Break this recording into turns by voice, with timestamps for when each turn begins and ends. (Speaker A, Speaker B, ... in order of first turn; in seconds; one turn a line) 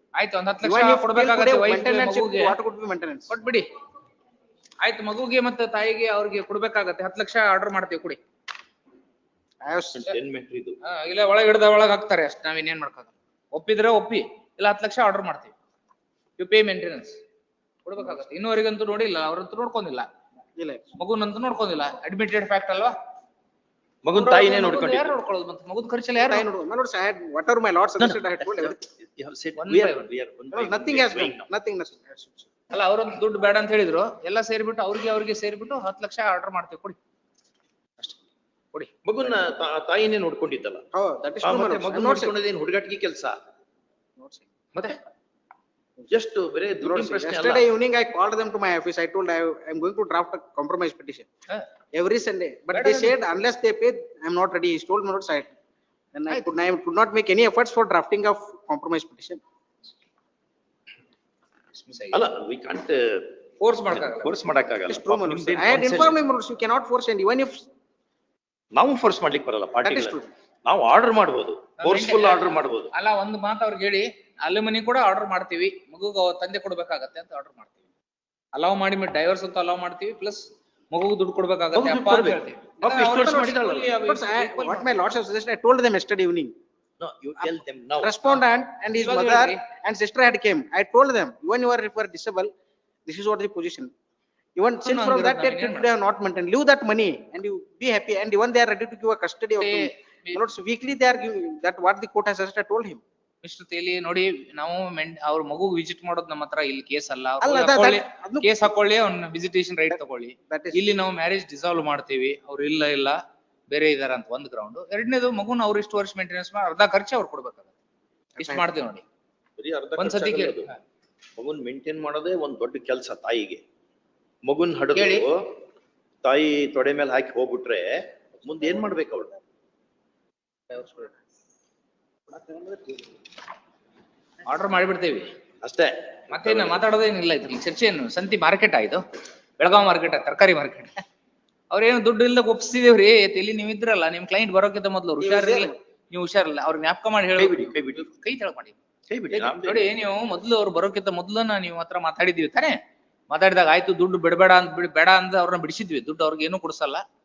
Speaker A: 0.1-2.5
Speaker B: 0.6-3.4
Speaker A: 3.3-3.7
Speaker A: 4.8-8.2
Speaker B: 9.6-10.1
Speaker C: 9.9-10.8
Speaker A: 10.8-15.5
Speaker A: 16.4-17.2
Speaker A: 17.8-20.1
Speaker B: 20.6-20.9
Speaker A: 21.0-22.9
Speaker C: 24.0-25.1
Speaker A: 24.1-26.4
Speaker B: 26.3-28.8
Speaker C: 28.0-31.5
Speaker A: 29.6-30.1
Speaker B: 30.5-32.5
Speaker A: 32.7-37.0
Speaker C: 39.0-40.9
Speaker B: 40.9-42.4
Speaker C: 41.4-43.4
Speaker B: 44.2-44.5
Speaker A: 44.7-45.0
Speaker C: 46.1-47.6
Speaker B: 46.8-51.3
Speaker B: 51.9-55.5
Speaker A: 52.7-53.1
Speaker B: 56.1-59.4
Speaker A: 61.7-62.3
Speaker C: 62.1-63.3
Speaker A: 63.6-64.3
Speaker C: 63.9-66.2
Speaker B: 64.9-67.7
Speaker C: 68.7-72.9
Speaker B: 69.8-70.3
Speaker A: 71.8-77.7
Speaker A: 78.5-85.0
Speaker C: 81.7-83.9
Speaker B: 82.8-86.5
Speaker C: 87.0-88.2
Speaker B: 87.4-92.5
Speaker A: 88.9-89.6
Speaker B: 93.1-93.9
Speaker B: 94.6-103.0
Speaker A: 94.8-95.9
Speaker A: 99.6-100.4
Speaker A: 103.4-117.7
Speaker B: 107.4-108.6
Speaker B: 110.5-110.9
Speaker A: 118.3-119.0
Speaker B: 118.4-118.7
Speaker C: 119.6-120.7
Speaker A: 120.0-120.8
Speaker C: 121.4-123.6
Speaker C: 124.4-125.5
Speaker A: 124.9-125.3
Speaker C: 126.2-129.3
Speaker B: 128.6-129.2
Speaker B: 130.7-131.1
Speaker B: 132.3-133.1
Speaker A: 134.4-135.3
Speaker C: 135.6-136.8
Speaker A: 136.3-139.1
Speaker A: 139.6-141.0
Speaker A: 141.7-148.8
Speaker B: 145.2-145.8
Speaker C: 147.4-148.1
Speaker C: 149.1-149.9
Speaker A: 149.3-152.8
Speaker A: 153.3-157.0